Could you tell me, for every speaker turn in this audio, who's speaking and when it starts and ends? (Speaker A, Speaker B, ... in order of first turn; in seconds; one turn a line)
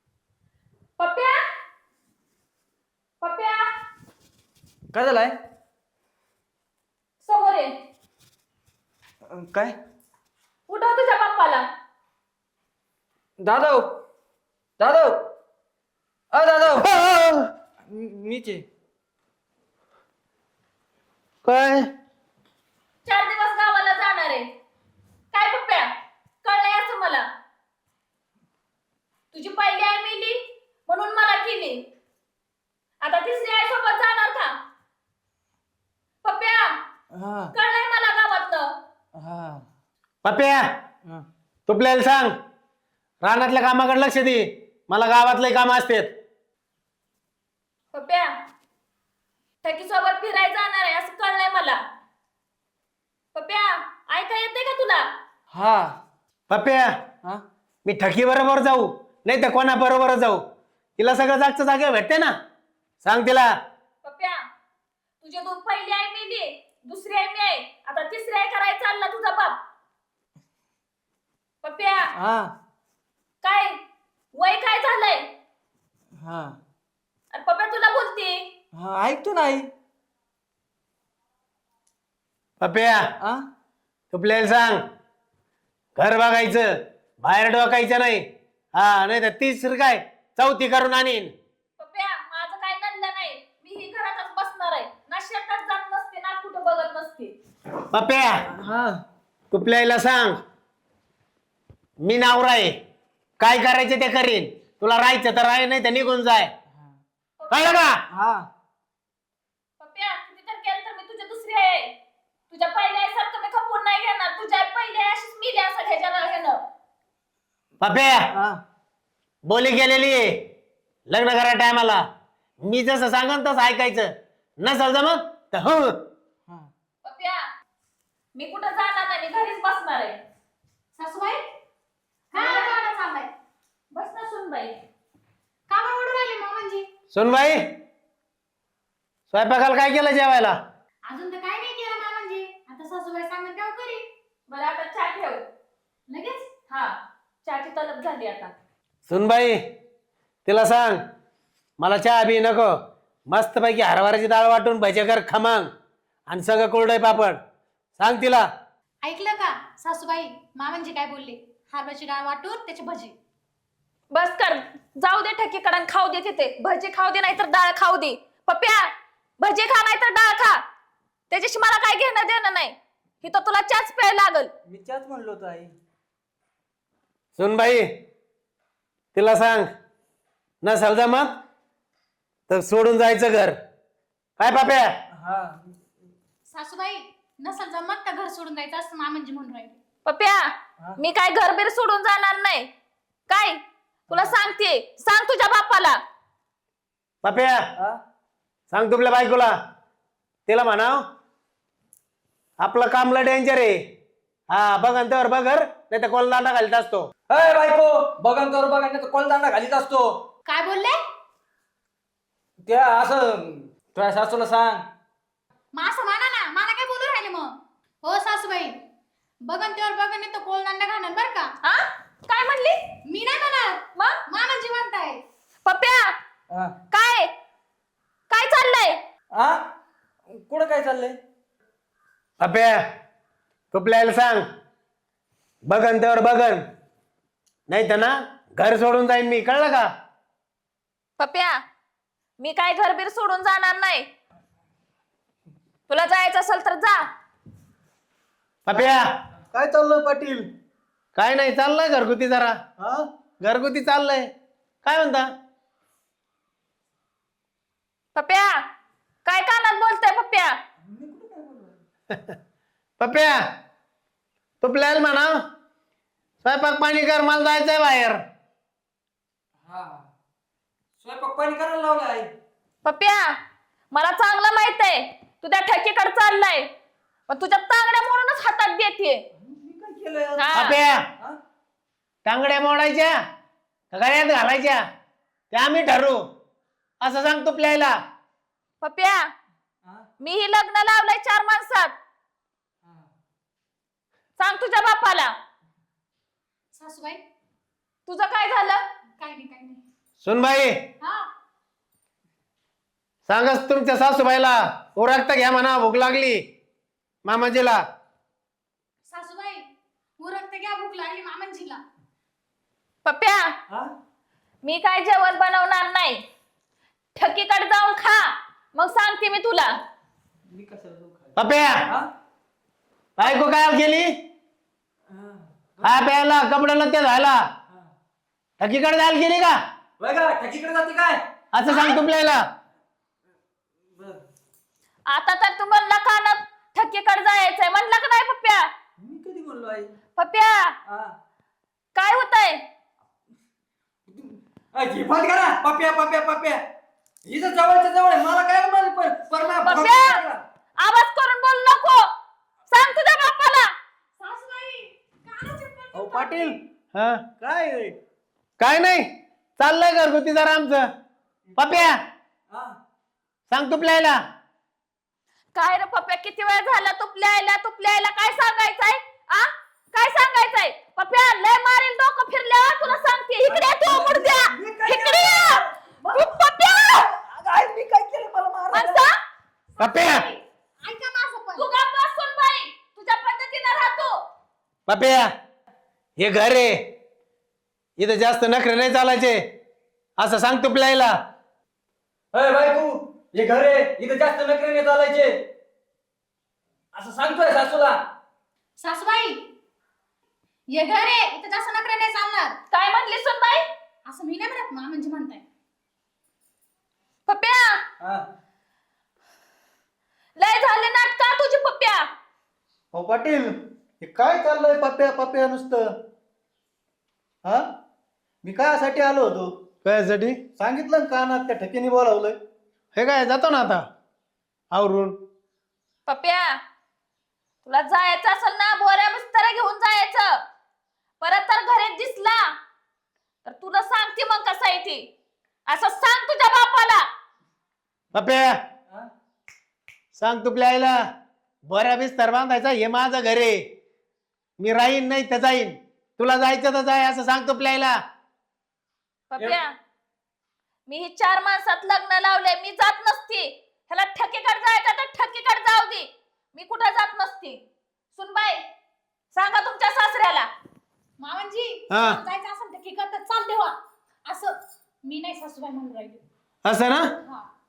Speaker A: 1.0-1.4
Speaker A: 3.2-3.6
Speaker B: 4.9-5.3
Speaker A: 7.2-7.7
Speaker B: 9.3-9.7
Speaker A: 10.7-11.7
Speaker B: 13.4-14.0
Speaker B: 14.8-15.3
Speaker B: 16.3-16.9
Speaker C: 16.8-17.5
Speaker B: 17.9-18.6
Speaker C: 21.4-21.9
Speaker A: 23.1-24.5
Speaker A: 25.3-25.9
Speaker A: 26.4-27.2
Speaker A: 29.3-31.8
Speaker A: 33.0-34.5
Speaker A: 36.2-36.7
Speaker B: 37.1-37.5
Speaker A: 37.5-38.7
Speaker B: 39.2-39.7
Speaker C: 40.2-40.6
Speaker C: 41.7-42.3
Speaker C: 43.2-46.1
Speaker A: 47.9-48.3
Speaker A: 49.6-51.8
Speaker A: 53.3-55.0
Speaker B: 55.5-56.0
Speaker C: 56.5-56.9
Speaker C: 57.8-60.4
Speaker C: 61.0-62.3
Speaker C: 63.0-63.5
Speaker A: 64.0-64.4
Speaker A: 65.2-69.6
Speaker A: 71.6-72.1
Speaker B: 72.2-72.5
Speaker A: 73.4-73.8
Speaker A: 74.3-75.2
Speaker B: 76.2-76.6
Speaker A: 77.3-78.5
Speaker B: 78.7-79.7
Speaker C: 82.6-83.0
Speaker C: 84.1-84.8
Speaker C: 86.0-88.2
Speaker C: 88.7-91.3
Speaker A: 91.8-97.3
Speaker C: 97.9-98.4
Speaker B: 98.5-99.0
Speaker C: 99.5-100.4
Speaker C: 102.0-102.7
Speaker C: 103.4-106.5
Speaker A: 107.4-107.9
Speaker C: 107.5-108.0
Speaker B: 108.1-108.5
Speaker A: 109.8-111.9
Speaker A: 112.5-116.6
Speaker C: 117.8-118.2
Speaker B: 118.3-118.6
Speaker C: 119.4-120.4
Speaker C: 121.1-122.0
Speaker C: 122.6-125.9
Speaker A: 127.0-127.4
Speaker A: 128.3-130.2
Speaker D: 130.9-131.4
Speaker D: 132.3-133.3
Speaker A: 132.3-132.8
Speaker A: 133.9-134.8
Speaker D: 135.7-136.8
Speaker C: 137.1-137.7
Speaker C: 139.3-140.6
Speaker D: 141.1-144.0
Speaker A: 144.5-145.4
Speaker D: 146.1-146.5
Speaker A: 146.7-148.5
Speaker C: 149.1-149.6
Speaker C: 150.5-151.0
Speaker C: 151.8-152.7
Speaker C: 153.3-155.7
Speaker C: 156.3-157.4
Speaker C: 158.0-158.5
Speaker D: 159.0-163.1
Speaker A: 164.1-170.6
Speaker A: 171.3-174.5
Speaker B: 174.7-175.7
Speaker C: 177.3-177.9
Speaker C: 179.1-179.7
Speaker C: 180.6-181.3
Speaker C: 182.5-183.6
Speaker C: 184.4-184.9
Speaker B: 185.1-185.8
Speaker D: 186.5-189.8
Speaker A: 190.0-192.7
Speaker A: 193.3-196.0
Speaker B: 194.1-194.4
Speaker C: 197.2-197.6
Speaker C: 198.7-199.5
Speaker C: 200.5-201.0
Speaker C: 202.6-203.8
Speaker C: 204.5-207.1
Speaker B: 207.3-210.2
Speaker D: 210.5-211.0
Speaker B: 212.7-214.9
Speaker D: 215.7-217.5
Speaker D: 218.0-218.8
Speaker D: 219.5-221.5
Speaker A: 221.6-222.8
Speaker D: 223.0-225.2
Speaker A: 225.7-226.2
Speaker A: 226.9-227.3
Speaker A: 228.3-229.0
Speaker B: 229.3-229.6
Speaker B: 230.3-231.2
Speaker C: 232.4-232.8
Speaker C: 233.7-234.4
Speaker C: 235.7-236.6
Speaker C: 237.7-239.9
Speaker A: 241.2-241.5
Speaker A: 242.4-244.1
Speaker A: 245.9-247.0
Speaker C: 248.7-249.1
Speaker E: 249.5-250.5
Speaker C: 251.2-252.6
Speaker E: 252.8-253.0
Speaker C: 253.4-254.3
Speaker C: 254.8-255.3
Speaker A: 258.1-258.6
Speaker A: 259.3-260.6
Speaker B: 260.8-261.8
Speaker C: 263.0-263.4
Speaker C: 264.6-265.4
Speaker C: 266.4-268.2
Speaker B: 269.6-270.1
Speaker B: 271.0-272.3
Speaker A: 272.8-273.4
Speaker A: 273.9-276.7
Speaker A: 277.3-279.2
Speaker B: 279.4-280.5
Speaker A: 280.4-280.8
Speaker C: 280.6-281.0
Speaker C: 282.2-283.2
Speaker C: 283.9-284.8
Speaker C: 285.5-286.2
Speaker C: 287.0-288.0
Speaker A: 288.8-289.3
Speaker A: 290.2-291.9
Speaker A: 294.4-295.3
Speaker D: 296.7-297.2
Speaker A: 298.1-298.8
Speaker D: 299.2-299.8
Speaker C: 300.2-300.8
Speaker D: 301.0-301.3
Speaker C: 303.3-306.4
Speaker C: 307.2-307.8
Speaker D: 309.1-309.6
Speaker D: 310.2-311.8
Speaker A: 313.1-313.5
Speaker A: 314.6-316.2
Speaker A: 317.1-319.7
Speaker B: 320.5-322.1
Speaker C: 321.4-321.8
Speaker C: 323.2-324.1
Speaker B: 325.1-326.0
Speaker C: 325.8-327.4
Speaker C: 328.6-329.6
Speaker B: 330.0-331.2
Speaker C: 331.5-332.4
Speaker A: 331.7-332.0
Speaker B: 333.9-334.2
Speaker A: 335.1-338.7
Speaker B: 339.0-339.9
Speaker A: 340.2-340.7
Speaker B: 340.9-341.1
Speaker A: 341.9-342.6
Speaker B: 344.1-346.6
Speaker B: 347.3-350.4
Speaker A: 349.6-350.2
Speaker A: 350.8-352.1
Speaker A: 352.7-353.7
Speaker D: 354.2-356.6
Speaker B: 355.9-356.4
Speaker E: 356.1-356.5
Speaker C: 356.9-357.2
Speaker B: 357.4-357.8
Speaker E: 357.4-357.9
Speaker C: 358.6-359.1
Speaker C: 359.6-360.9
Speaker B: 361.6-362.0
Speaker C: 361.6-362.0
Speaker C: 363.5-364.2
Speaker A: 365.6-377.1
Speaker B: 372.8-379.1
Speaker A: 378.7-379.1
Speaker D: 379.7-381.7
Speaker C: 379.8-380.3
Speaker A: 381.6-384.2
Speaker C: 384.9-385.3
Speaker C: 386.2-386.9
Speaker C: 388.0-389.4
Speaker C: 390.2-391.1
Speaker B: 392.3-395.3
Speaker B: 396.9-398.0
Speaker D: 398.8-399.5
Speaker D: 400.7-402.6
Speaker A: 402.7-403.6
Speaker D: 404.1-405.4
Speaker A: 407.3-407.8
Speaker A: 410.4-412.1
Speaker E: 412.9-415.9
Speaker E: 418.4-419.5
Speaker C: 419.8-420.4
Speaker E: 420.6-422.4
Speaker C: 422.9-423.9
Speaker C: 424.7-425.2
Speaker A: 426.1-426.6
Speaker A: 427.6-430.4
Speaker A: 431.2-432.5
Speaker A: 433.4-435.1
Speaker A: 435.7-437.1
Speaker C: 438.1-438.6
Speaker C: 440.1-441.0
Speaker C: 441.7-443.6
Speaker C: 444.6-448.0
Speaker A: 449.3-449.7
Speaker B: 449.4-449.6
Speaker A: 450.9-457.6
Speaker A: 458.1-458.6
Speaker A: 459.3-460.5
Speaker D: 461.2-466.2
Speaker C: 461.9-462.2
Speaker C: 466.6-467.1